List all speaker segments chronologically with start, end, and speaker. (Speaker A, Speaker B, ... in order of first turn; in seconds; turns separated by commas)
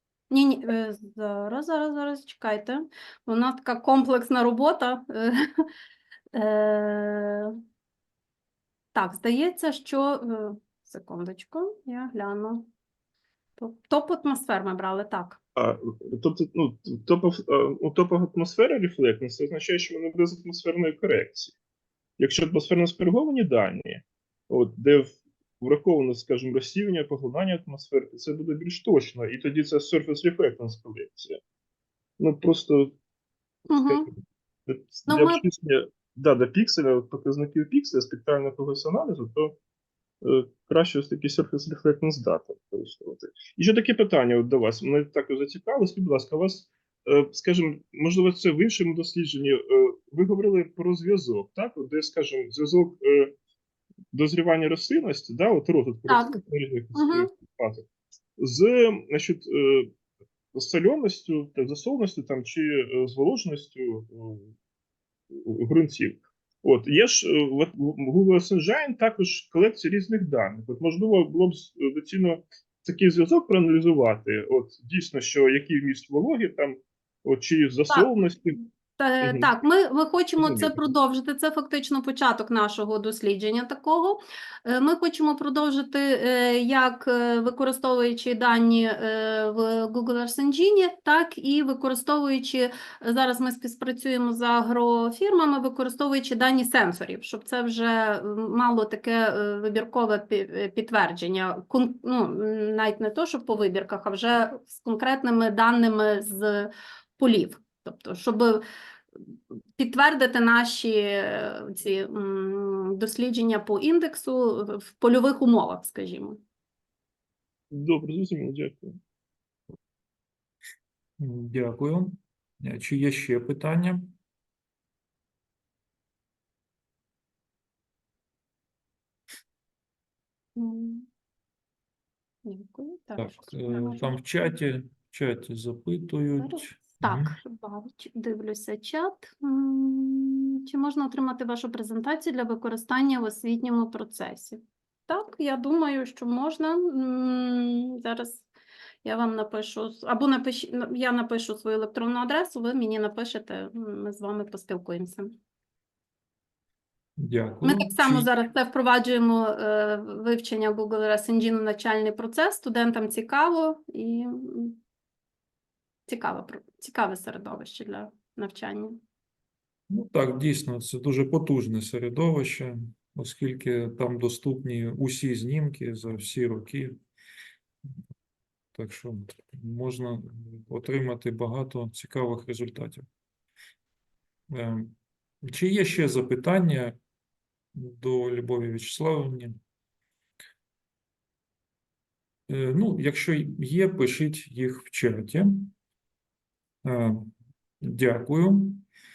Speaker A: 0.3-5.6, Speaker A: 6.3-7.6, Speaker A: 8.9-12.7, Speaker A: 13.6-15.4, Speaker B: 15.6-21.6, Speaker B: 22.2-31.4, Speaker B: 32.2-33.0, Speaker A: 33.7-34.1, Speaker B: 34.7-39.6, Speaker A: 35.1-35.4, Speaker B: 40.2-53.4, Speaker B: 54.1-57.9, Speaker A: 56.1-56.4, Speaker A: 56.9-57.3, Speaker B: 58.4-59.9, Speaker B: 60.5-64.5, Speaker B: 65.3-78.6, Speaker A: 79.0-108.6, Speaker B: 79.2-79.5, Speaker B: 80.4-80.8, Speaker A: 109.8-116.4, Speaker B: 117.7-119.0, Speaker C: 121.2-124.2, Speaker A: 130.6-131.1, Speaker A: 132.4-134.5, Speaker C: 133.2-137.4, Speaker A: 136.4-148.5, Speaker A: 149.0-155.3, Speaker C: 157.2-158.3, Speaker A: 157.6-164.8, Speaker A: 166.1-169.0, Speaker C: 169.9-177.0, Speaker C: 178.8-183.1, Speaker C: 184.5-187.0, Speaker C: 187.8-189.6, Speaker C: 192.5-195.7, Speaker C: 196.8-198.9